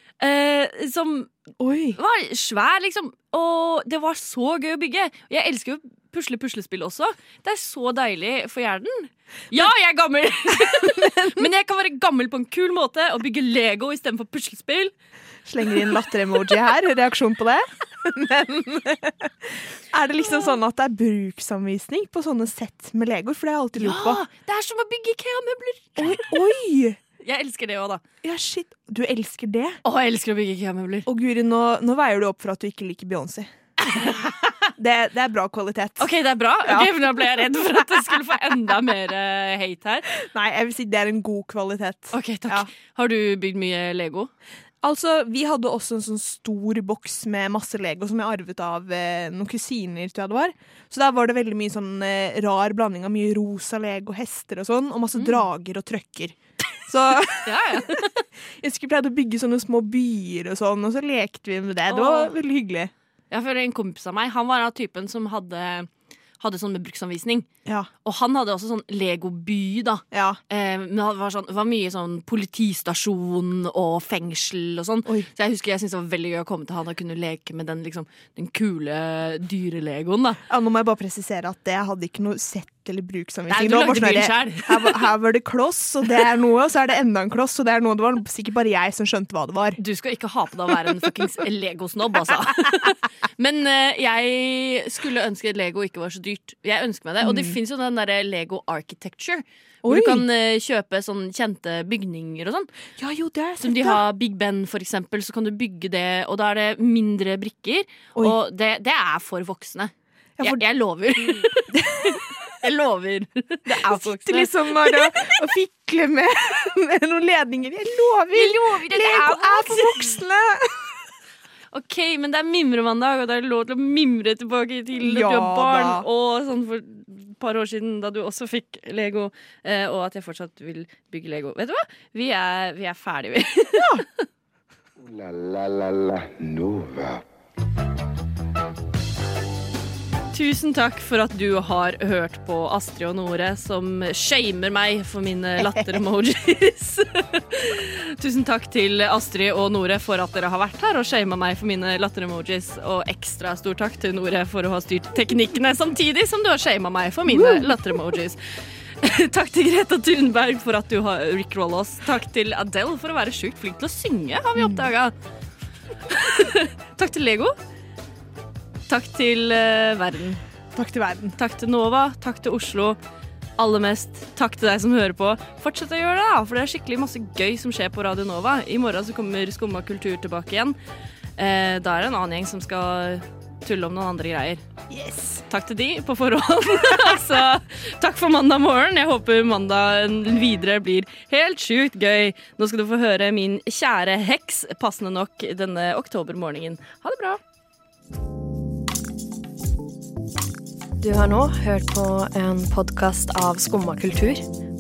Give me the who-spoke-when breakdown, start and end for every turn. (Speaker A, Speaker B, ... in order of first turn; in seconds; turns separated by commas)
Speaker A: 0.2-1.3, Speaker B: 1.6-2.0, Speaker A: 1.9-14.9, Speaker B: 10.5-11.5, Speaker B: 15.5-24.2, Speaker A: 23.8-26.3, Speaker B: 26.0-27.0, Speaker A: 27.2-28.0, Speaker B: 28.2-29.8, Speaker A: 29.8-31.1, Speaker B: 31.1-33.5, Speaker A: 34.0-34.3, Speaker B: 34.8-36.1, Speaker A: 36.0-40.1, Speaker B: 36.6-37.4, Speaker B: 40.1-42.7, Speaker A: 42.1-44.3, Speaker B: 44.8-56.4, Speaker A: 55.2-55.4, Speaker B: 56.9-58.0, Speaker A: 57.4-58.2, Speaker B: 58.6-62.9, Speaker A: 61.9-62.3, Speaker A: 63.3-65.9, Speaker A: 66.4-67.5, Speaker B: 67.7-67.9, Speaker A: 68.0-80.4, Speaker B: 70.1-70.4, Speaker B: 80.5-89.8, Speaker A: 83.5-85.1, Speaker A: 89.8-102.7, Speaker B: 97.2-97.6, Speaker B: 99.8-100.2, Speaker B: 103.0-104.0, Speaker A: 103.6-115.3, Speaker B: 110.4-110.6, Speaker B: 111.2-112.2, Speaker B: 113.7-120.9, Speaker A: 118.3-120.2, Speaker A: 121.7-134.0, Speaker B: 125.0-126.1, Speaker C: 135.0-137.2, Speaker A: 140.3-158.4, Speaker B: 145.6-146.0, Speaker B: 157.3-158.1, Speaker A: 159.0-165.1, Speaker B: 164.6-164.9, Speaker A: 166.1-167.6, Speaker A: 168.9-170.4, Speaker B: 170.8-171.4, Speaker A: 171.4-173.0, Speaker A: 173.6-180.8, Speaker A: 181.4-184.6, Speaker B: 184.9-185.4, Speaker A: 185.5-197.4, Speaker D: 201.0-204.4